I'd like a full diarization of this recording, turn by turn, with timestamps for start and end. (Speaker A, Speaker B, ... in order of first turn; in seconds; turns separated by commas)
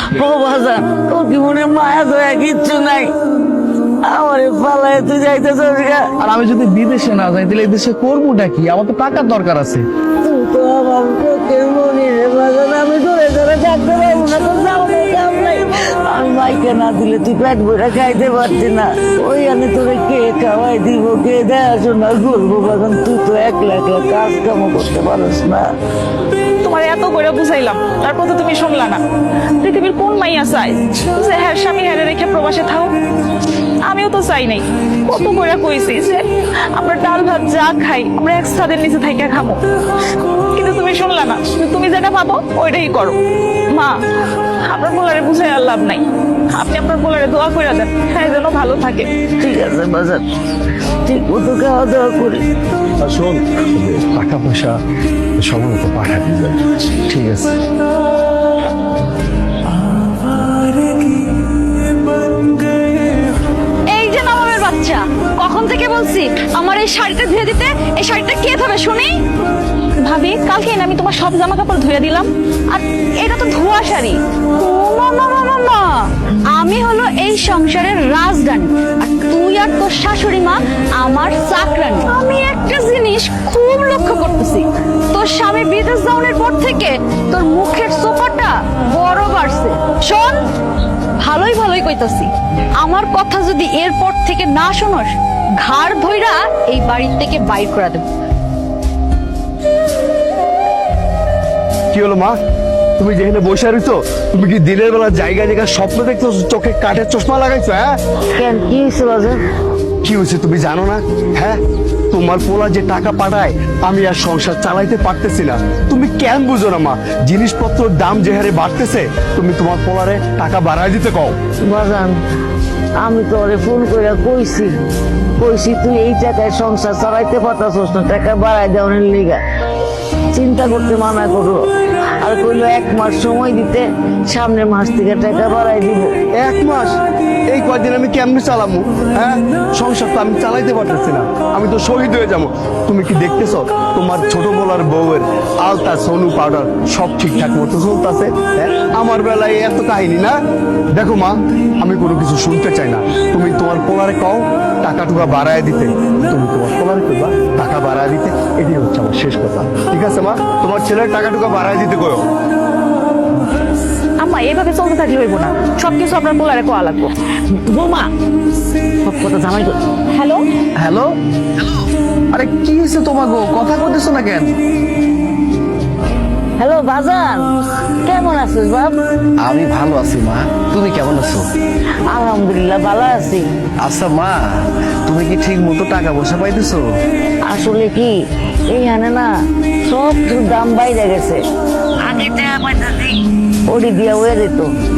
Speaker A: 0.1-3.1, Speaker A: 4.1-6.1, Speaker B: 6.2-9.9, Speaker A: 10.2-25.7, Speaker C: 26.6-29.0, Speaker C: 29.6-33.0, Speaker C: 33.9-39.6, Speaker C: 40.5-43.2, Speaker C: 44.6-49.1, Speaker A: 49.4-50.2, Speaker A: 51.1-52.5, Speaker D: 53.0-54.7, Speaker D: 55.4-56.6, Speaker B: 57.1-57.5, Speaker E: 63.9-69.2, Speaker C: 70.0-74.2, Speaker E: 74.6-90.4, Speaker E: 91.2-98.0, Speaker D: 101.9-102.3, Speaker D: 103.0-108.0, Speaker A: 108.4-109.4, Speaker D: 110.0-111.6, Speaker D: 112.1-121.4, Speaker A: 121.7-122.2, Speaker A: 123.0-124.7, Speaker A: 125.4-129.4, Speaker A: 130.3-131.6, Speaker A: 132.2-136.2, Speaker D: 136.4-150.4, Speaker D: 150.9-162.3, Speaker C: 164.2-167.1, Speaker A: 167.6-168.1, Speaker A: 169.0-169.8, Speaker C: 170.1-170.5, Speaker B: 170.8-171.7, Speaker B: 172.3-174.5, Speaker A: 176.6-177.5, Speaker A: 178.1-179.0, Speaker B: 179.4-181.5, Speaker A: 182.1-183.5, Speaker B: 183.8-184.4, Speaker B: 185.1-186.8, Speaker A: 187.5-188.2, Speaker A: 188.7-189.3, Speaker A: 189.9-191.4, Speaker A: 192.0-194.7